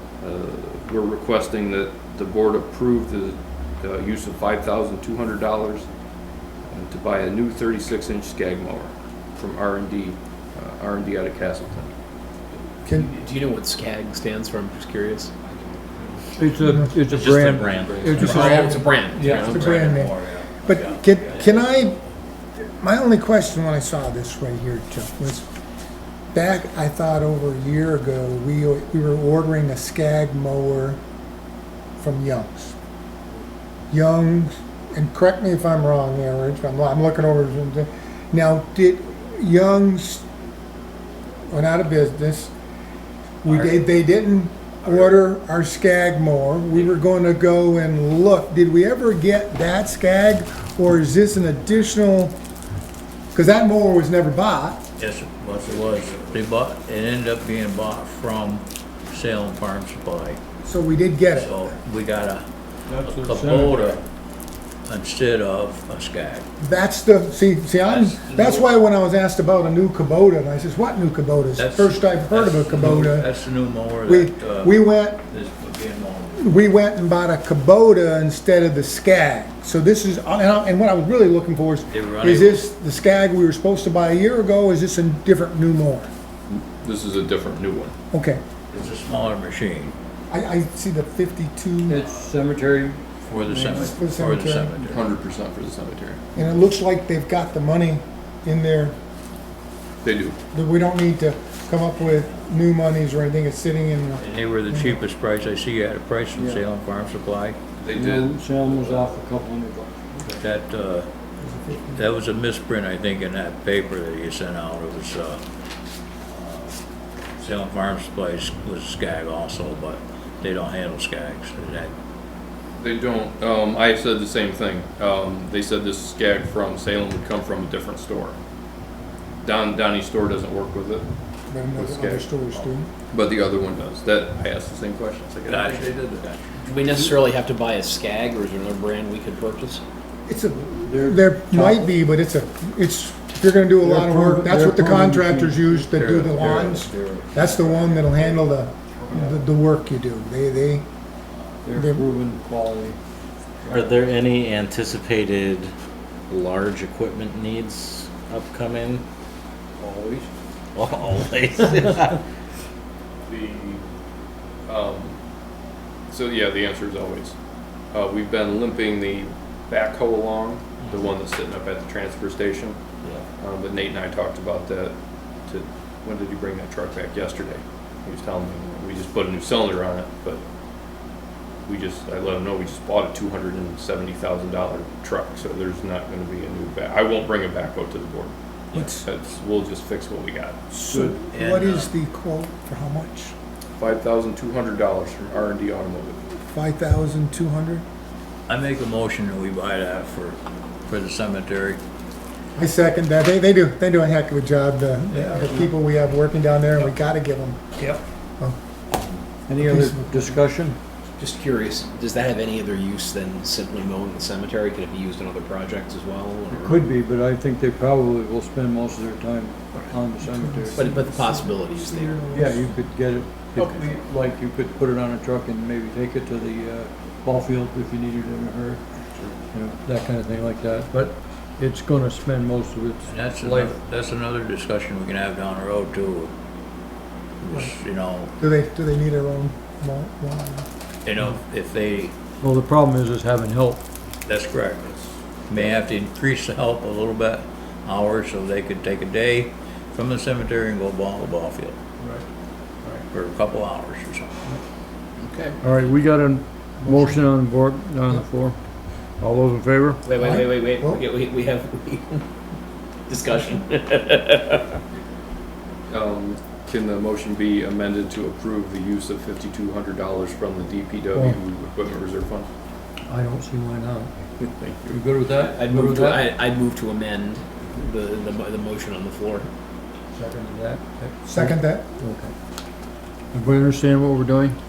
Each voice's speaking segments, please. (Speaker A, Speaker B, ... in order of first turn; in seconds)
Speaker A: 0.2-5.9, 6.7-11.9, 17.6-18.8, 55.8-56.3, 86.5-88.0, 94.8-96.2, 100.0-100.4, 107.8-109.1, 122.8-128.4, 129.4-131.1, 131.7-132.3, 133.1-136.2, 163.2-163.8, 164.7-165.2, 166.1-167.4, 167.9-172.8, 173.4-175.0, 175.5-180.4, 181.7-190.6, 193.8-196.2, 252.0-252.2, 265.9-272.5, 274.4-275.0
Speaker B: 12.9-15.8, 17.1-19.9, 136.6-139.8, 211.2-216.9, 220.8-222.5, 223.6-223.9, 255.2-255.6, 260.1-262.2, 263.1-264.8, 275.3-279.5
Speaker C: 16.4-19.6, 62.9-64.0, 91.9-94.0, 106.3-106.6, 107.9-110.3, 140.8-142.0, 143.8-146.8, 149.0-149.5, 151.6-153.0, 153.7-154.0, 159.8-160.3, 209.5-210.8, 216.5-220.9, 222.3-228.8, 229.5-233.8, 242.4-243.8, 255.6-258.6, 259.2-260.0, 271.1-271.4, 273.1-274.1, 274.9-276.3, 280.1-282.3, 283.3-284.6
Speaker D: 16.6-16.9, 18.2-22.0, 22.8-25.5, 26.3-31.0, 32.0-32.8, 33.9-40.2, 41.5-42.5, 43.4-52.4, 53.3-54.8, 60.6-61.6, 66.6-73.3, 74.0-75.2, 76.4-86.1, 88.1-88.4, 90.3-92.1, 93.8-94.7, 96.3-99.0, 100.5-105.0, 111.4-112.1, 131.5-132.9, 140.3-150.8, 151.8-152.1, 188.7-189.1, 190.7-193.3, 196.5-197.8, 202.6-207.6, 209.6-210.4, 220.2-222.8, 238.4-240.7, 256.9-257.2, 260.1-261.0, 281.2-281.9
Speaker E: 19.2-21.9, 43.5-43.8, 55.0-60.4, 61.3-62.5, 63.0-64.0, 64.9-66.5, 67.8-68.7, 71.5-76.6, 81.9-82.7, 88.7-90.0, 92.0-92.3, 93.2-95.0, 104.2-107.6, 110.3-111.1, 112.0-115.4, 116.2-116.8, 117.4-121.9, 135.4-136.4, 145.9-148.2, 153.9-155.6, 156.7-159.0, 160.8-162.0, 191.3-191.9, 198.5-201.8, 205.2-205.5, 233.1-236.3, 237.4-238.3, 241.1-242.1, 244.3-245.0, 245.5-251.8, 253.1-254.4
Speaker F: 153.7-155.2, 156.3-159.0, 160.8-162.1